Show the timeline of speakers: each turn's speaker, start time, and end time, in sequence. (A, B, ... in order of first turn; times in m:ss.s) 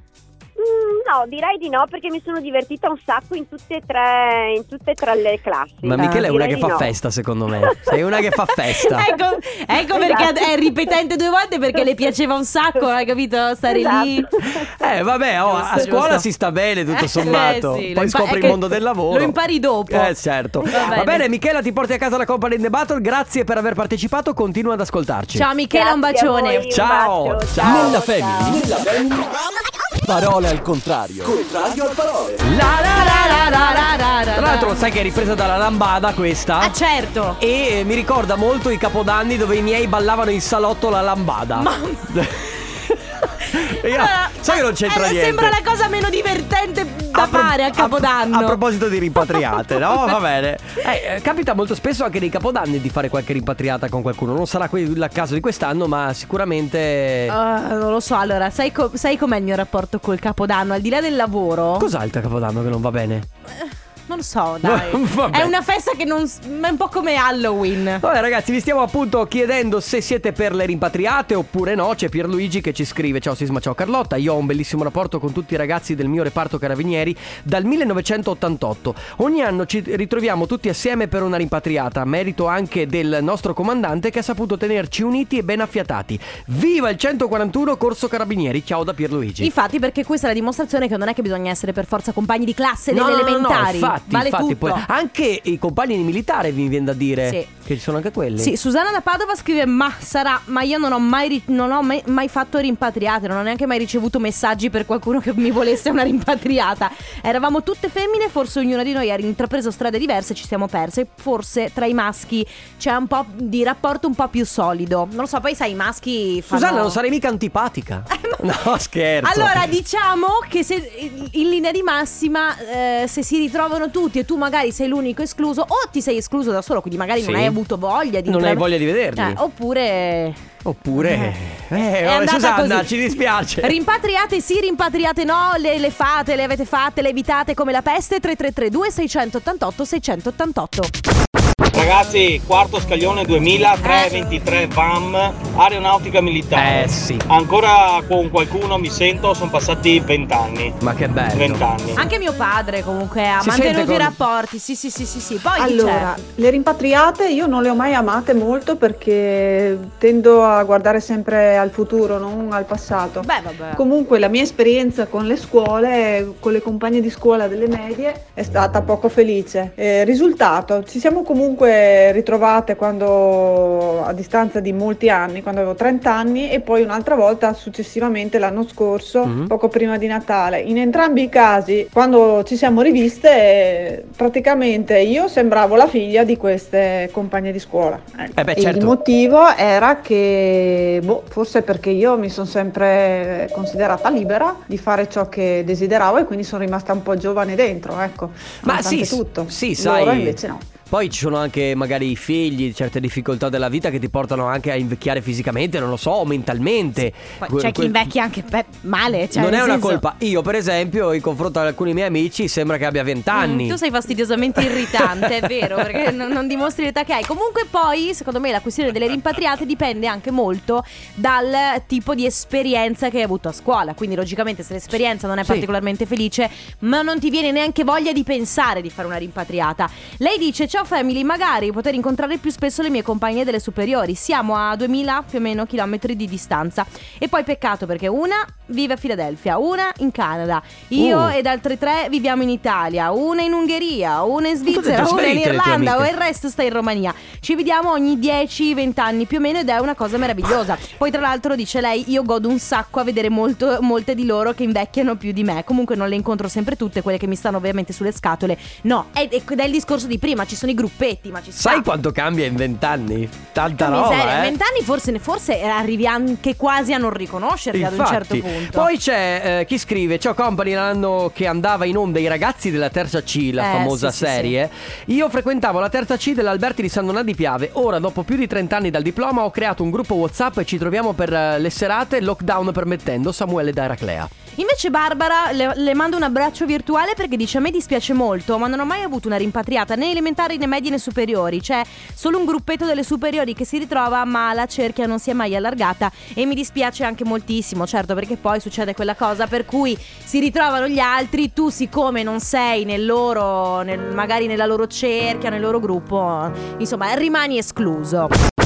0:00.6-0:06.9 A
0:05.8-0:09.1 B
0:06.0-0:06.3 C
0:08.8-0:14.3 C
0:09.9-0:10.7 A
0:13.7-0:14.7 A
0:14.6-0:19.4 B
0:15.5-0:16.2 C
0:15.6-0:15.8 A
0:16.9-0:20.1 C
0:19.9-0:25.5 B
0:20.7-0:21.2 C
0:25.3-0:26.6 C
0:25.7-0:28.6 A
0:26.7-0:27.9 B
0:27.6-0:29.3 D
0:30.0-0:32.5 D
0:32.4-0:36.8 B
0:32.6-0:34.9 C
0:36.6-0:37.4 C
0:37.4-0:45.5 B
0:41.6-0:42.2 C
0:43.4-0:48.6 C
0:47.1-0:57.3 B
0:49.2-0:50.1 C
0:57.3-1:01.9 C
1:01.8-1:03.3 B
1:03.5-1:08.0 C
1:04.6-1:05.5 B
1:08.0-1:29.5 B
1:29.4-1:34.8 C
1:32.9-1:38.5 B
1:38.4-1:57.0 C
1:56.5-1:59.7 B
1:58.1-1:58.4 C
1:59.2-2:08.6 C
2:07.2-2:07.6 B
2:08.3-2:09.4 B
2:09.2-2:11.4 C
2:10.6-2:13.7 B
2:12.0-2:12.9 C
2:13.6-2:20.9 C
2:21.7-2:30.8 E
2:23.8-2:24.2 C
2:26.5-2:27.2 B
2:30.8-2:31.6 B
2:31.3-2:32.0 E
2:32.0-2:36.1 C
2:33.4-2:34.2 B
2:35.6-3:20.6 F
2:43.2-2:43.8 C
2:59.2-2:59.5 B
3:08.4-3:08.9 B
3:18.6-3:28.0 B
3:27.4-3:30.0 C
3:29.3-3:33.8 B
3:33.3-4:21.8 C
3:34.7-3:35.2 B
4:01.0-4:01.3 B
4:04.7-4:06.1 B
4:21.6-4:24.5 B
4:23.7-4:28.9 C
4:27.7-4:44.3 B
4:33.6-4:34.5 C
4:44.6-5:08.3 C